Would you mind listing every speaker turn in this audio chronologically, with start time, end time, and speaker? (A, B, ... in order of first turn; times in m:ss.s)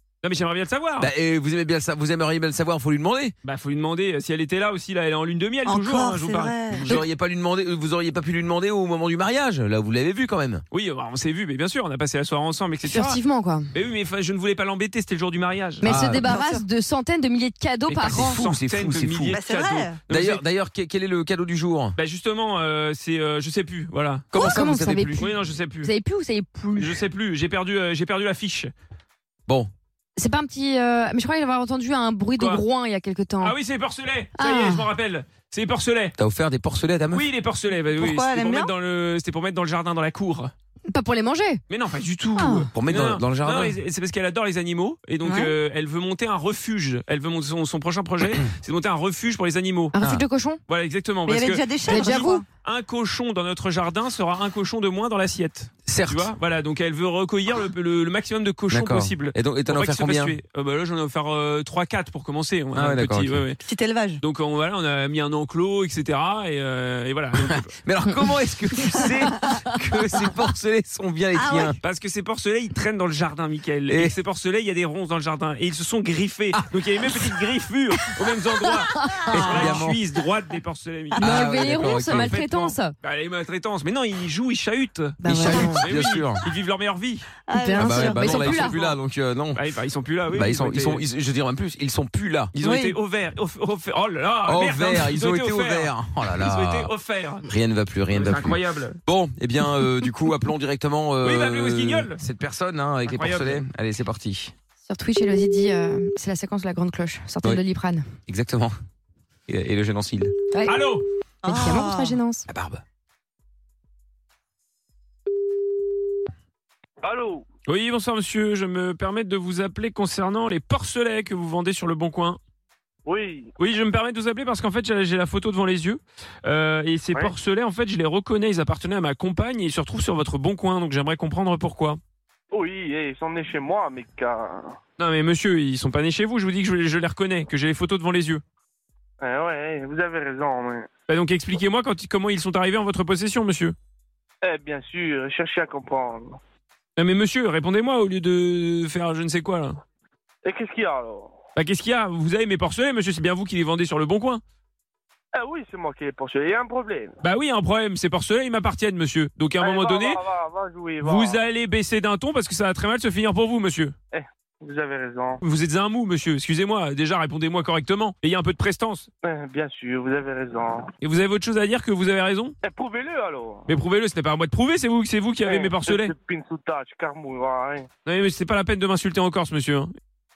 0:00.2-0:01.1 A
0:01.0-0:03.3 B
0:03.4-0:07.0 A
0:05.6-0:07.0 C
0:06.8-0:10.6 B
0:10.7-0:13.2 A
0:12.8-0:13.7 D
0:13.7-0:15.9 A
0:15.8-0:18.4 D
0:15.8-0:16.3 B
0:16.1-0:16.6 C
0:17.9-0:20.4 A
0:17.9-0:19.4 B
0:19.3-0:20.0 C
0:20.1-0:21.9 B
0:22.0-0:24.2 A
0:24.3-0:27.0 D
0:24.3-0:25.3 B
0:25.2-0:25.9 A
0:26.8-0:28.7 A
0:30.2-0:33.6 D
0:32.4-0:32.6 A
0:33.4-0:36.1 A
0:34.4-0:34.9 D
0:36.2-0:37.3 B
0:37.1-0:40.5 A
0:37.9-0:38.7 C
0:40.9-0:41.6 D
0:41.7-0:49.9 A
0:42.4-0:42.7 D
0:42.7-0:43.8 B
0:45.2-0:45.5 D
0:49.9-0:50.6 D
0:50.0-0:50.2 B
0:50.7-1:03.6 A
0:51.2-0:52.4 C
0:51.8-0:52.4 D
0:55.8-0:56.3 B
0:58.7-1:00.4 B
1:02.7-1:03.4 B
1:03.6-1:04.2 C
1:04.2-1:07.7 A
1:07.4-1:11.8 B
1:11.3-1:11.8 C
1:11.8-1:21.4 A
1:13.9-1:14.1 B
1:18.9-1:19.6 D
1:19.3-1:20.0 B
1:21.2-1:22.4 B
1:21.2-1:22.9 D
1:22.1-1:27.3 A
1:25.2-1:25.8 C
1:25.2-1:26.4 B
1:27.5-1:28.7 C
1:27.5-1:28.9 D
1:27.8-1:29.6 B
1:29.5-1:31.0 A
1:30.3-1:32.5 B
1:32.6-1:37.4 A
1:32.6-1:33.0 C
1:34.4-1:36.9 B
1:37.4-1:44.5 B
1:38.1-1:39.0 A
1:41.2-1:42.2 A
1:43.0-1:43.6 A
1:44.8-1:48.0 D
1:48.3-1:48.7 B
1:49.5-1:50.3 B
1:50.5-1:50.8 D
1:50.7-1:51.0 A
1:51.4-1:52.2 C
1:51.4-1:52.5 D
1:52.5-1:52.8 B
1:57.0-1:57.4 E
1:57.7-2:02.4 A
2:03.0-2:03.5 E
2:03.6-2:12.0 A
2:12.5-2:14.7 E
2:15.0-2:18.4 A
2:19.2-2:20.9 E
2:21.1-2:23.8 A
2:24.4-2:26.4 E
2:27.0-2:29.8 A
2:30.4-2:31.3 E
2:31.6-2:34.4 A
2:35.3-2:37.1 E
2:37.2-2:40.2 A
2:39.6-2:41.4 E
2:41.0-2:43.9 A
2:44.1-2:45.4 E
2:45.4-2:49.1 A
2:49.2-2:50.9 E
2:51.0-2:52.5 A
2:52.6-2:53.7 E
2:53.7-2:56.1 A
2:55.4-2:57.9 E
2:58.0-2:59.9 A